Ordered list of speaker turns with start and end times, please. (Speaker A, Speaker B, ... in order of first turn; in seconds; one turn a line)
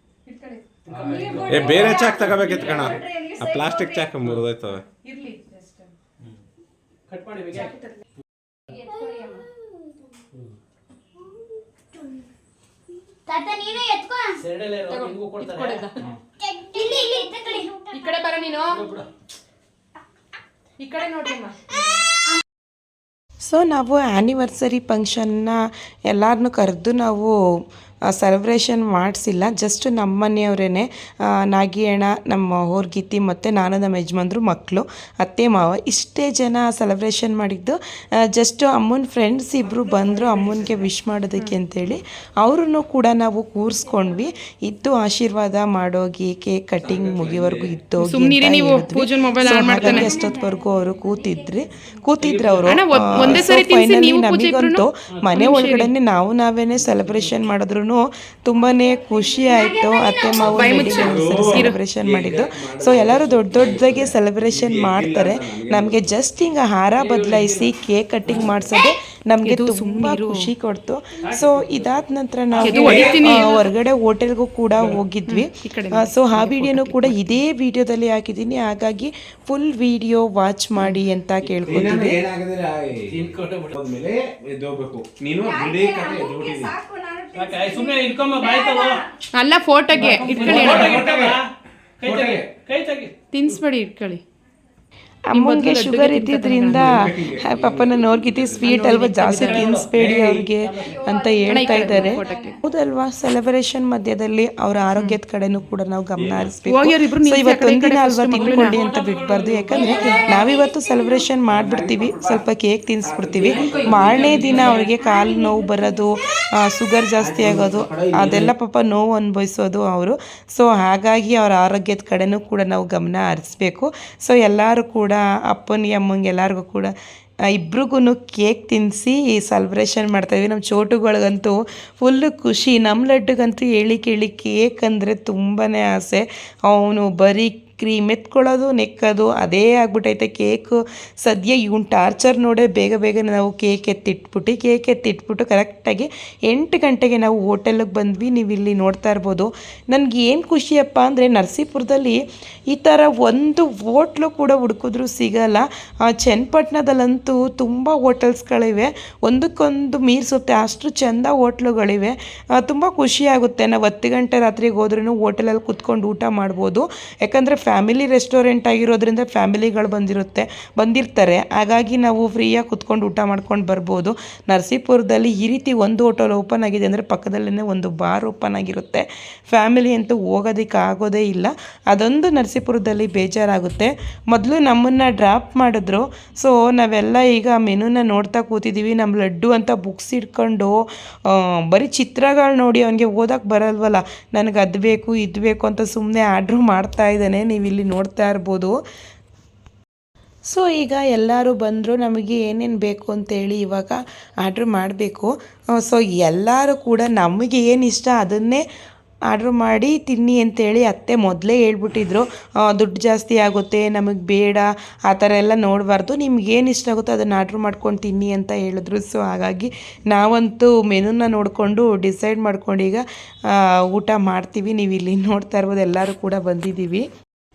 Speaker A: 0.3-0.6
Speaker B: 0.8-3.0
Speaker C: 1.4-4.9
Speaker D: 1.9-2.2
Speaker D: 3.1-4.0
Speaker A: 5.0-5.9
Speaker B: 7.1-7.7
Speaker A: 7.6-7.9
Speaker D: 8.9-9.4
Speaker D: 13.3-14.4
Speaker B: 14.4-15.9
Speaker A: 14.9-16.1
Speaker D: 16.4-18.2
Speaker A: 17.9-18.9
Speaker B: 18.7-19.1
Speaker A: 20.8-21.6
Speaker E: 23.4-27.4
Speaker E: 28.1-37.8
Speaker E: 38.3-82.2
Speaker C: 46.8-47.8
Speaker A: 48.0-50.2
Speaker D: 49.5-51.5
Speaker B: 52.2-52.8
Speaker A: 52.6-55.9
Speaker B: 56.8-57.3
Speaker D: 58.7-61.0
Speaker A: 60.5-61.8
Speaker C: 61.0-66.0
Speaker B: 67.0-67.7
Speaker B: 68.2-68.7
Speaker A: 69.4-70.5
Speaker B: 71.2-73.4
Speaker A: 72.6-73.7
Speaker C: 72.9-73.2
Speaker A: 75.3-77.4
Speaker C: 81.7-86.8
Speaker B: 83.1-83.8
Speaker D: 85.5-87.9
Speaker B: 87.3-89.0
Speaker D: 88.4-89.0
Speaker A: 89.3-91.1
Speaker B: 90.0-91.5
Speaker C: 90.3-91.4
Speaker B: 92.0-93.6
Speaker C: 92.0-92.5
Speaker A: 93.3-94.2
Speaker E: 95.3-126.9
Speaker A: 95.3-97.0
Speaker C: 96.7-98.9
Speaker B: 98.7-100.1
Speaker A: 98.9-99.4
Speaker C: 99.9-100.5
Speaker B: 100.6-101.1
Speaker D: 101.1-102.4
Speaker A: 101.5-102.6
Speaker C: 106.2-106.5
Speaker A: 106.6-108.8
Speaker B: 108.3-110.4
Speaker D: 110.3-110.7
Speaker C: 111.5-112.4
Speaker C: 113.0-114.5
Speaker B: 113.4-114.9
Speaker D: 114.8-115.9
Speaker C: 117.2-118.5
Speaker E: 127.5-198.8
Speaker E: 200.5-208.6
Speaker E: 209.3-227.1